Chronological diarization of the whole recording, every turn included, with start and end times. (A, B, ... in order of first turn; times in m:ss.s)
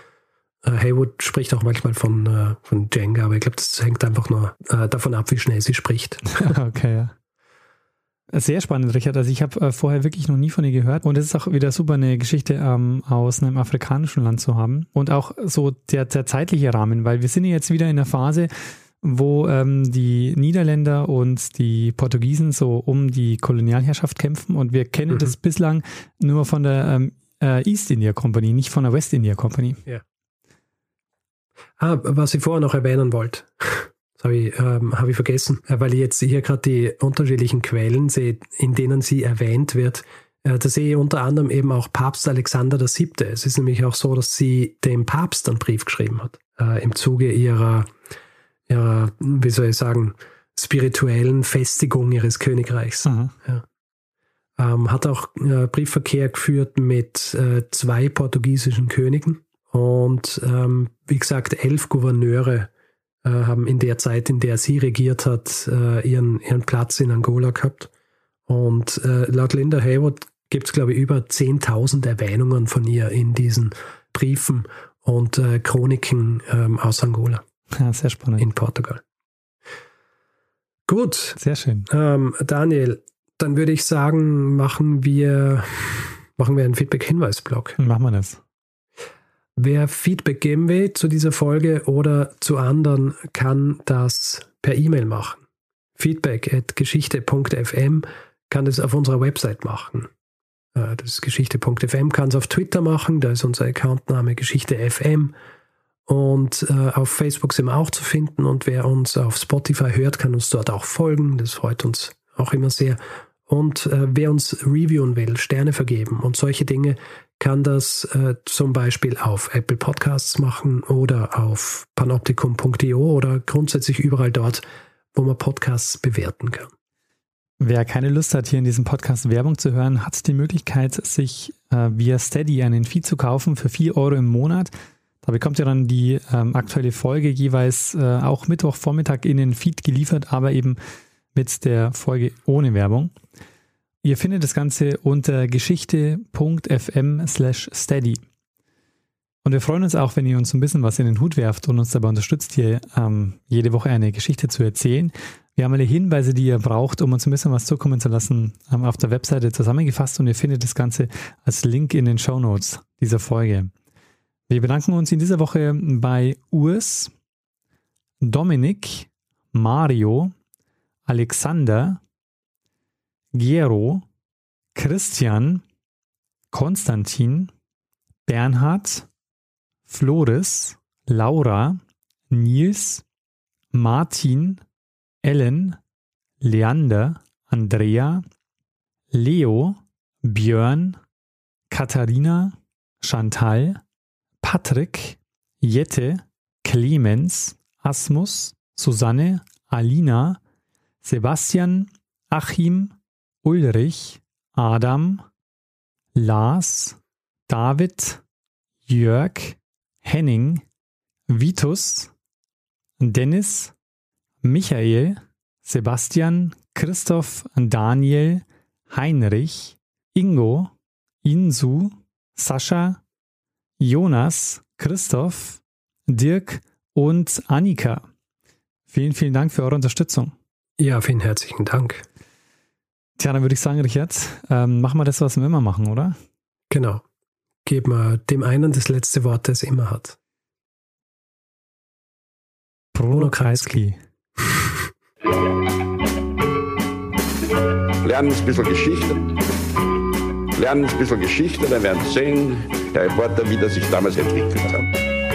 0:00.6-0:06.5 A
0:06.4-0:07.1 B
0:08.3-0:18.5 B
0:19.0-0:29.8 B
0:31.8-0:47.9 A
0:48.7-0:53.6 A
0:53.0-0:53.3 B
0:54.6-1:02.7 A
1:03.2-1:07.9 A
1:08.5-1:17.4 A
1:17.7-1:18.4 B
1:18.4-1:19.0 A
1:20.9-1:27.8 A
1:21.4-1:21.9 B
1:27.8-1:28.4 B
1:29.6-1:35.4 A
1:36.0-1:40.1 A
1:40.7-1:45.3 A
1:46.1-2:04.6 A
2:05.1-2:06.7 A
2:07.6-2:14.7 B
2:15.2-2:20.8 B
2:21.3-2:23.1 B
2:24.0-2:28.2 B
2:29.4-2:43.7 B
2:44.5-2:47.1 B
2:48.2-2:50.3 B
2:51.0-2:52.0 B
2:53.3-2:54.0 B
2:54.7-2:55.6 B
2:56.5-2:57.5 B
2:58.3-2:59.1 B
2:59.9-3:03.0 B
3:03.7-3:04.6 B
3:05.2-3:05.8 B
3:06.4-3:08.2 B
3:09.1-3:11.0 B
3:11.7-3:13.8 B
3:14.4-3:20.4 B
3:21.0-3:25.2 B
3:26.1-3:28.2 B
3:28.9-3:30.6 B
3:31.3-3:32.1 B
3:33.0-3:33.7 B
3:34.4-3:40.7 B
3:41.2-3:43.0 B
3:43.8-3:48.0 B
3:48.9-3:50.3 B
3:50.8-3:52.0 A
3:53.2-3:56.2 B
3:56.7-3:57.0 A
3:57.6-4:00.2 A
4:02.9-4:04.0 B
4:03.1-4:03.8 A
4:08.0-4:09.3 C
4:10.6-4:14.9 C